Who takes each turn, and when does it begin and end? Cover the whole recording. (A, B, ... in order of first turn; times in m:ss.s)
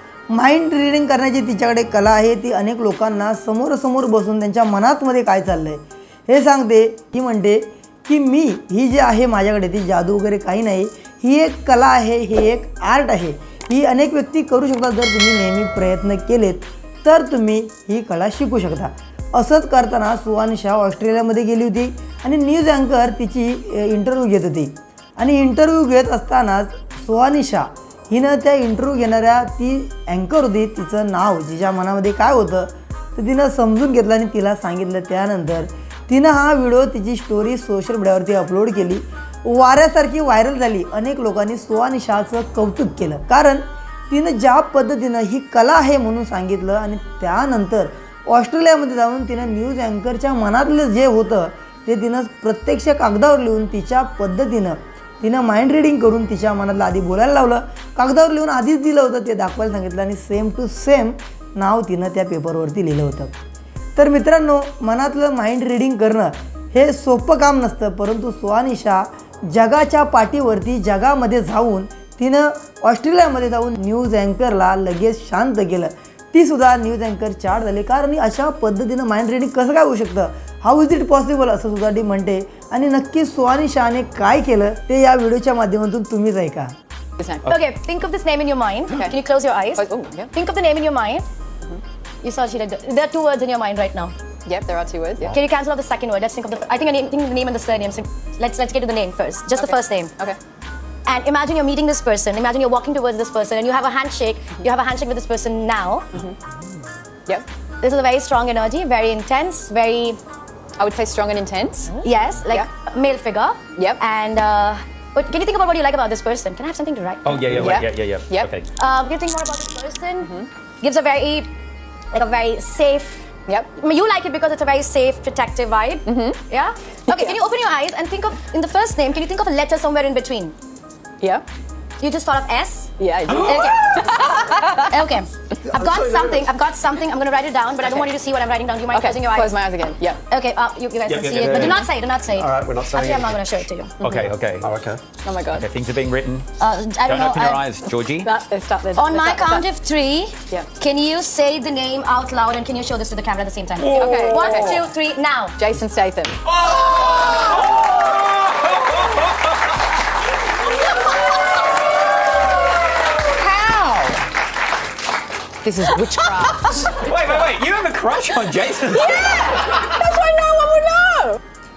0:00.3-1:03.3 A
1:04.0-1:26.7 A
1:27.2-1:27.5 B
1:27.4-1:31.2 C
1:29.7-1:30.3 B
1:32.2-1:34.1 C
1:34.4-1:35.4 B
1:35.2-1:40.1 C
1:39.6-1:40.4 B
1:41.0-1:46.2 C
1:47.8-1:50.2 C
1:50.8-1:52.7 B
1:52.0-1:57.7 C
1:57.2-1:58.6 D
1:57.5-1:58.5 B
1:58.8-2:01.5 C
2:00.2-2:00.5 B
2:02.1-2:03.2 C
2:03.5-2:03.8 B
2:03.8-2:10.5 C
2:06.0-2:06.4 B
2:07.1-2:07.4 B
2:12.0-2:19.5 C
2:13.0-2:14.8 B
2:15.8-2:16.5 E
2:18.9-2:20.2 B
2:20.3-2:23.9 C
2:21.0-2:23.4 E
2:24.0-2:24.3 B
2:24.0-2:24.7 D
2:24.3-2:25.0 E
2:25.2-2:25.6 B
2:25.5-2:26.5 D
2:26.6-2:27.6 C
2:27.0-2:28.3 D
2:28.2-2:29.6 B
2:29.0-2:35.6 C
2:33.8-2:34.8 B
2:33.9-2:34.6 D
2:35.6-2:36.4 B
2:36.6-2:39.3 D
2:43.6-2:44.1 B
2:45.6-2:47.0 B
2:47.0-2:49.9 D
2:49.2-2:51.4 B